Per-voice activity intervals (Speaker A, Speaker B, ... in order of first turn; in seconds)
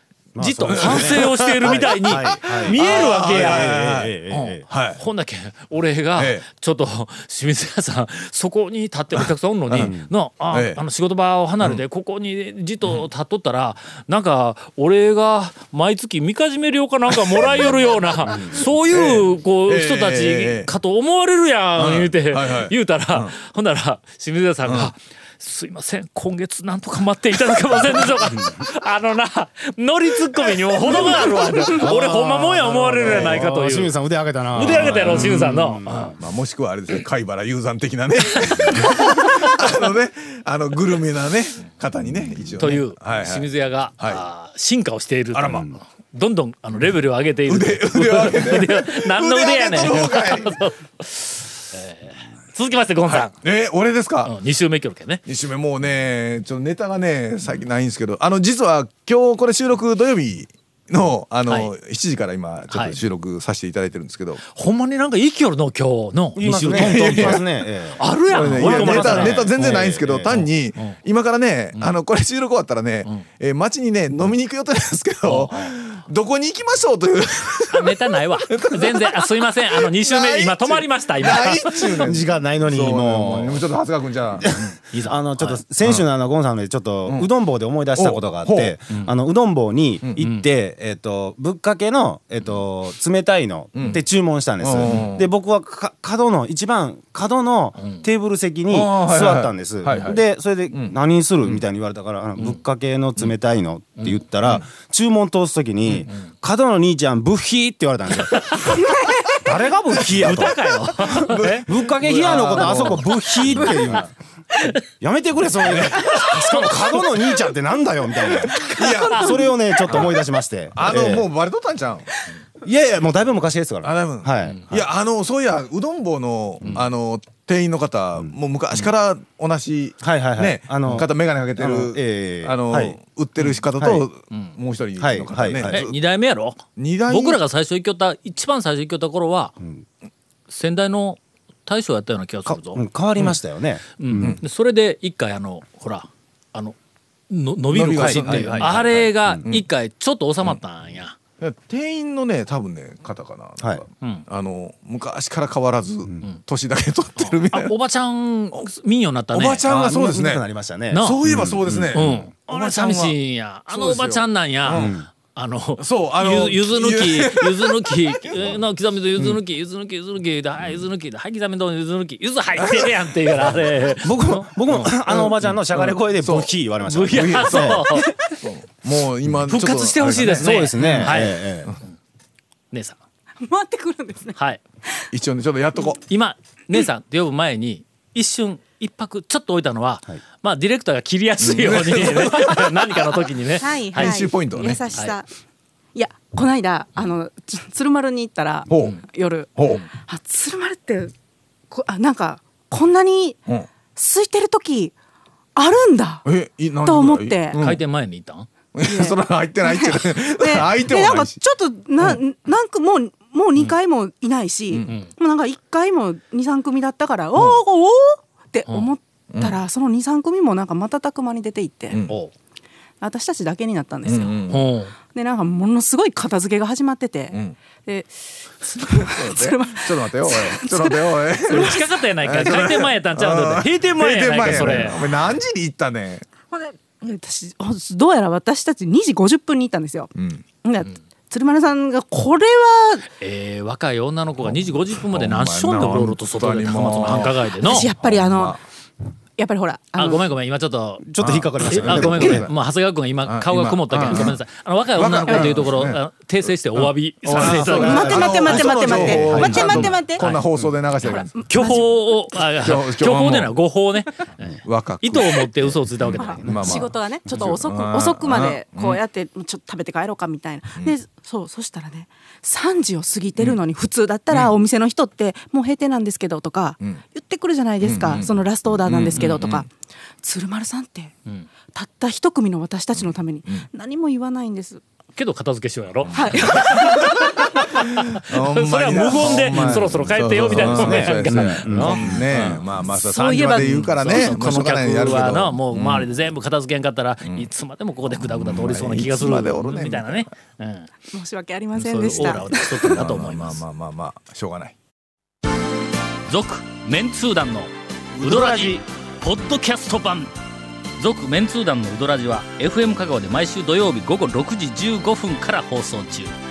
Speaker A: 0.3-4.6, 9.8-10.1, 30.8-36.2, 66.4-70.4, 82.0-83.7, 84.4-108.6, 109.4-114.1, 114.9-121.3, 122.6-124.8, 130.0-133.0, 133.8-134.1, 135.0-135.8, 142.4-144.4, 147.9-149.6, 159.7-162.0, 164.7-165.1, 174.0-177.9, 180.2-181.8, 251.0-252.5, 257.4-259.9, 266.1-266.7, 288.9-292.2, 308.2-308.8
Speaker B: 0.4-33.9, 34.5-36.1, 38.4-39.5, 42.6-53.3, 54.2-55.2, 61.5-61.7, 62.7-63.0, 64.5-67.4, 68.0-71.0, 75.2-75.7, 77.7-82.1, 84.9-85.6, 110.2-114.0, 116.2-117.0, 135.7-139.5, 140.5-142.8, 144.0-146.8, 147.3-151.2, 157.2-159.7, 160.9-161.2, 161.9-174.9, 176.8-178.2, 179.5-181.9, 182.7-183.0, 184.3-184.6, 186.1-195.2, 207.6-208.5, 222.1-222.3, 224.5-224.9, 231.5-235.0, 243.2-247.9, 249.9-251.1, 251.7-260.5, 261.0-266.8, 279.1-279.4, 285.1-292.7, 293.5-300.9, 301.8-303.6, 306.3-310.3, 311.0-316.3
Speaker C: 0.7-4.1, 4.7-5.0, 6.2-6.4, 9.2-9.9, 10.5-10.8, 18.9-20.7, 21.8-23.3, 24.6-24.9, 32.9-33.4, 34.6-44.2, 45.3-45.7, 47.5-50.6, 53.0-54.3, 55.2-64.4, 66.7-67.5, 68.3-84.8, 87.9-88.7, 90.0-90.3, 93.7-94.0, 94.6-95.3, 98.7-100.9, 110.1-110.5, 111.1-113.8, 115.6-116.2, 118.8-120.2, 120.7-122.1, 123.8-136.0, 136.8-137.4, 147.7-149.6, 151.4-157.7, 159.3-160.4, 161.0-163.2, 163.7-164.9, 165.8-168.5, 172.6-173.4, 174.9-176.5, 177.1-177.9, 178.4-181.1, 185.1-186.0, 191.4-193.0, 193.9-194.8, 198.7-199.0, 199.6-199.8, 206.2-207.8, 208.7-211.4, 221.9-222.2, 224.0-224.7, 228.9-236.2, 240.2-240.4, 244.4-248.6, 251.2-252.5, 253.2-254.4, 254.9-256.0, 256.7-261.8, 262.6-263.5, 264.6-269.0, 277.8-279.6, 283.0-283.6, 286.0-286.9, 287.6-296.1, 298.1-300.3, 302.8-304.7
Speaker D: 108.6-109.3, 118.5-119.6, 183.4-184.4, 193.6-195.3, 195.9-201.1, 201.7-203.4, 203.9-204.9, 205.6-206.2, 206.8-207.6, 208.8-222.0, 223.0-224.4, 225.1-232.7, 236.5-240.1, 240.6-243.1, 247.6-248.6, 249.4-250.3, 257.8-260.2, 261.4-261.9, 266.1-279.7, 280.2-281.1, 281.7-284.8, 286.1-287.4, 292.9-294.4, 301.1-303.0